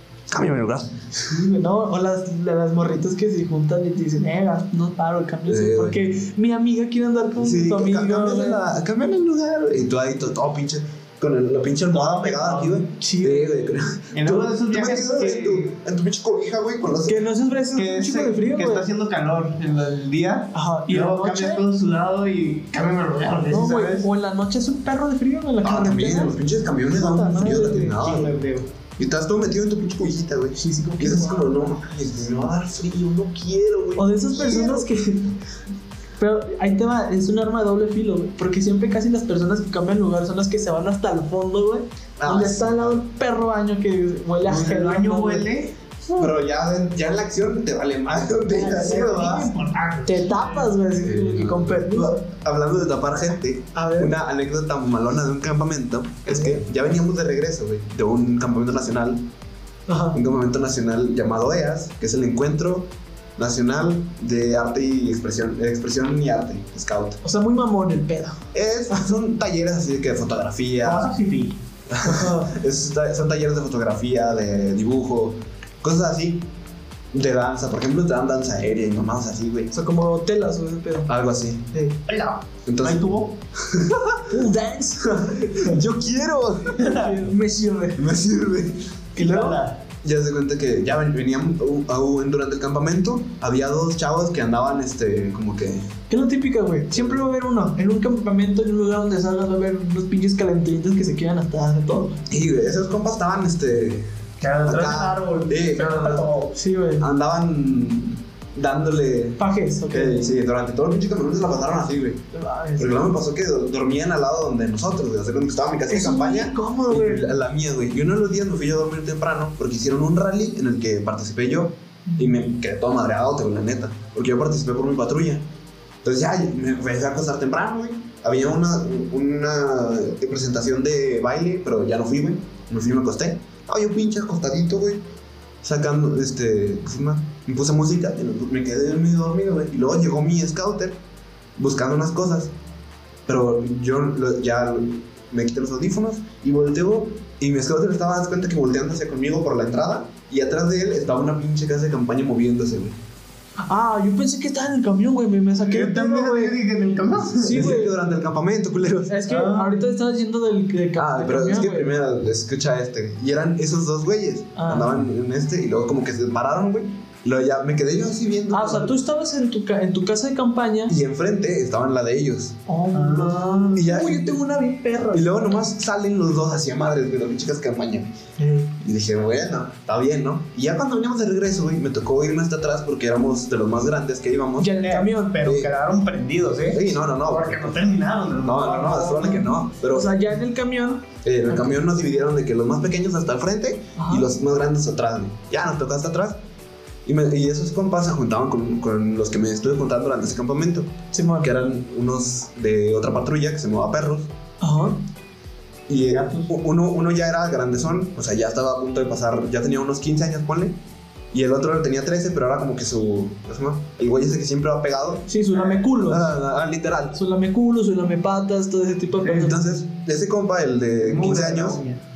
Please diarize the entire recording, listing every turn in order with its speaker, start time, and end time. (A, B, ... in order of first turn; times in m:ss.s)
0:00.3-0:01.3 A
0:01.3-0:08.6 B
0:05.5-0:06.0 A
0:07.4-0:17.2 A
0:11.9-0:12.8 C
0:12.9-0:13.5 B
0:14.1-0:15.7 C
0:17.1-0:18.9 B
0:17.8-0:24.1 C
0:20.5-0:21.6 B
0:23.5-0:26.4 B
0:25.6-0:28.3 A
0:26.9-0:28.2 B
0:28.0-0:28.7 C
0:29.0-0:34.9 A
0:30.6-0:31.7 B
0:34.0-0:35.4 B
0:36.2-0:45.5 B
0:42.2-0:43.0 A
0:44.4-0:45.8 C
0:46.2-0:49.5 A
0:48.1-0:50.7 C
0:48.5-0:49.4 B
0:50.0-0:52.2 B
0:51.0-0:59.3 A
0:53.7-0:54.2 B
0:56.3-0:56.6 B
0:59.9-1:00.2 B
1:00.1-1:07.2 A
1:07.2-1:08.4 B
1:08.5-1:11.1 A
1:10.8-1:11.6 C
1:11.9-1:16.5 A
1:12.0-1:12.5 B
1:17.1-1:19.7 A
1:19.7-1:21.1 B
1:21.1-1:21.7 A
1:21.7-1:22.0 B
1:22.1-1:23.4 C
1:22.7-1:24.2 A
1:24.3-1:26.0 B
1:25.5-1:26.9 A
1:26.7-1:28.1 B
1:26.8-1:27.2 C
1:28.0-1:29.0 A
1:29.2-1:29.6 B
1:29.2-1:29.8 C
1:30.0-1:35.9 A
1:36.1-1:42.2 B
1:36.9-1:37.2 A
1:42.3-1:44.1 A
1:44.4-1:46.6 C
1:44.6-1:46.3 A
1:46.5-1:47.1 B
1:47.0-1:52.2 A
1:49.4-1:50.3 B
1:52.3-1:53.1 B
1:52.8-2:05.4 A
1:55.9-1:57.3 B
2:02.1-2:02.4 B
2:06.0-2:15.0 A
2:15.6-2:21.0 A
2:21.6-2:22.5 A
2:23.3-2:33.0 A
2:33.6-2:36.6 B
2:35.7-2:37.7 C
2:37.3-2:39.2 A
2:37.4-2:37.9 B
2:39.1-2:41.9 B
2:39.3-2:39.8 C
2:41.0-2:49.0 A
2:44.6-2:45.0 B
2:48.5-2:51.0 B
2:50.9-2:52.6 A
2:52.7-2:55.6 B
2:52.9-2:53.4 C
2:53.7-2:54.4 A
2:55.1-2:58.1 A
2:58.4-2:58.7 B
2:58.8-3:04.8 A
3:04.6-3:05.4 B
3:04.8-3:09.4 C
3:05.4-3:05.7 A
3:06.7-3:07.8 A
3:08.4-3:10.2 A
3:09.2-3:11.8 B
3:11.2-3:16.4 A
3:14.0-3:14.3 B
3:17.0-3:24.3 A
3:21.1-3:21.5 B
3:24.6-3:25.0 B
3:25.9-3:30.8 A
3:26.1-3:26.5 C
3:31.3-3:37.2 A
3:35.3-3:36.3 B
3:37.1-3:39.6 B
3:39.2-3:41.8 A
3:41.1-3:42.0 C